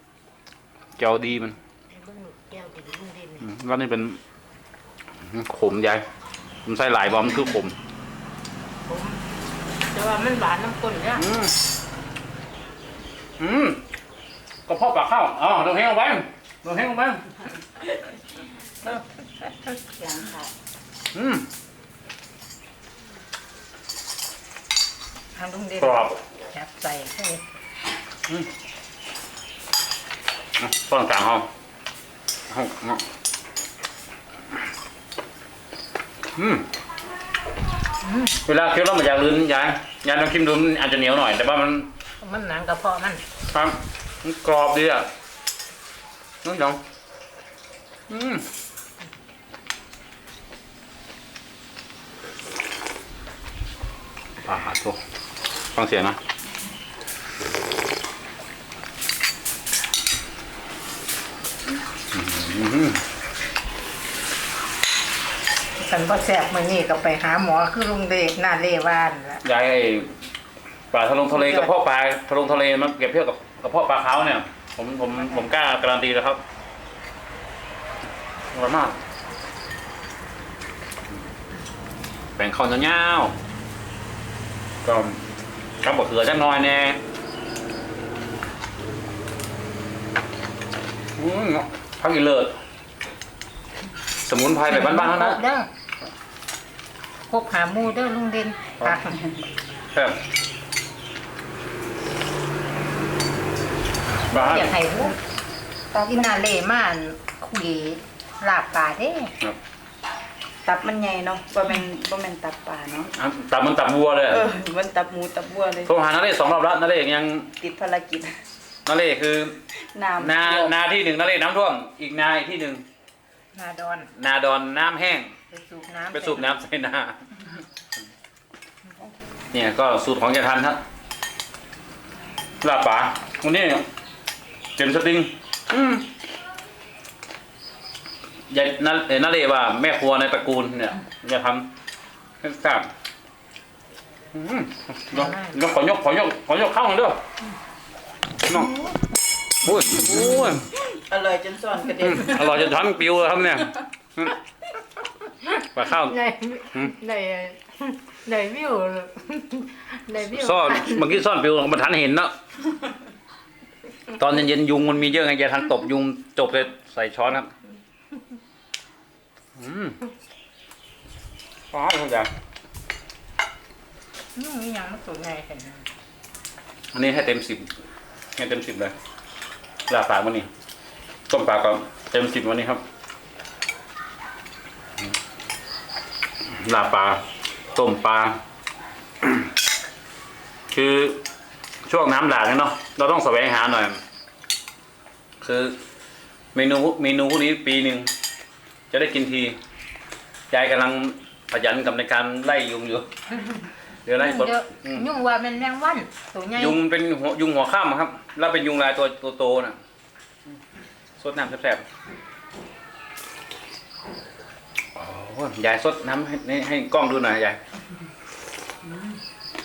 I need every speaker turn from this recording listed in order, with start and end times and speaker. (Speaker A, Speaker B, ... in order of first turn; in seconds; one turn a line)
Speaker A: 1.0-1.6
Speaker B: 1.9-3.5
Speaker A: 3.4-4.2
Speaker A: 5.2-6.0
Speaker A: 6.6-7.8
Speaker B: 8.9-9.2
Speaker B: 9.9-11.3
Speaker A: 11.2-11.5
Speaker A: 13.4-13.8
Speaker A: 14.7-17.4
Speaker B: 18.8-20.5
Speaker A: 21.1-21.5
Speaker B: 25.4-27.4
Speaker A: 25.8-26.1
Speaker A: 30.6-31.5
Speaker A: 32.5-33.0
Speaker A: 36.4-36.7
Speaker B: 38.0-38.4
Speaker A: 38.4-41.9
Speaker B: 42.2-43.2
Speaker A: 43.5-45.1
Speaker A: 46.4-46.8
Speaker A: 48.1-48.5
Speaker A: 54.4-55.0
Speaker A: 55.7-56.2
Speaker A: 62.1-63.0
Speaker B: 65.8-69.4
Speaker A: 69.4-70.2
Speaker A: 70.9-76.4
Speaker B: 71.3-71.7
Speaker A: 78.5-79.0
Speaker A: 82.4-83.3
Speaker A: 84.8-85.2
Speaker A: 85.8-87.0
Speaker A: 91.2-92.6
Speaker A: 94.2-95.4
Speaker B: 94.6-95.7
Speaker B: 97.3-99.2
Speaker A: 99.9-100.2
Speaker A: 104.3-104.8
Speaker B: 104.3-105.2
Speaker C: 105.9-106.3
Speaker B: 106.1-109.3
Speaker C: 110.6-113.1
Speaker A: 113.1-114.4
Speaker C: 114.3-115.9
Speaker A: 115.8-117.5
Speaker C: 117.6-118.4
Speaker A: 118.8-119.6
Speaker C: 119.8-120.7
Speaker A: 120.2-122.8
Speaker B: 123.5-124.1
Speaker A: 124.1-125.3
Speaker B: 125.5-126.4
Speaker A: 126.1-127.4
Speaker A: 129.5-130.8
Speaker A: 132.6-133.9
Speaker A: 134.8-136.1
Speaker A: 138.5-141.7
Speaker A: 142.4-142.9
Speaker A: 144.3-147.2
Speaker B: 145.1-145.6
Speaker A: 148.4-148.7
Speaker B: 148.5-148.9
Speaker A: 149.6-150.6
Speaker C: 150.0-152.8
Speaker A: 152.0-154.3
Speaker B: 155.5-161.2
Speaker A: 155.7-156.2
Speaker A: 160.3-162.3
Speaker A: 164.1-167.5
Speaker A: 169.6-170.0
Speaker A: 171.7-172.3
Speaker B: 174.3-175.8
Speaker A: 176.9-177.7
Speaker A: 178.4-178.9
Speaker A: 179.9-180.5
Speaker A: 181.3-182.8
Speaker A: 186.4-188.4
Speaker A: 189.2-189.5
Speaker A: 190.7-191.2
Speaker A: 191.8-194.0
Speaker A: 195.4-195.8
Speaker A: 196.5-198.1
Speaker A: 198.9-199.6
Speaker A: 200.5-203.1
Speaker A: 204.0-205.1
Speaker B: 204.2-206.8
Speaker A: 206.5-209.8
Speaker A: 211.2-211.8
Speaker A: 214.9-217.6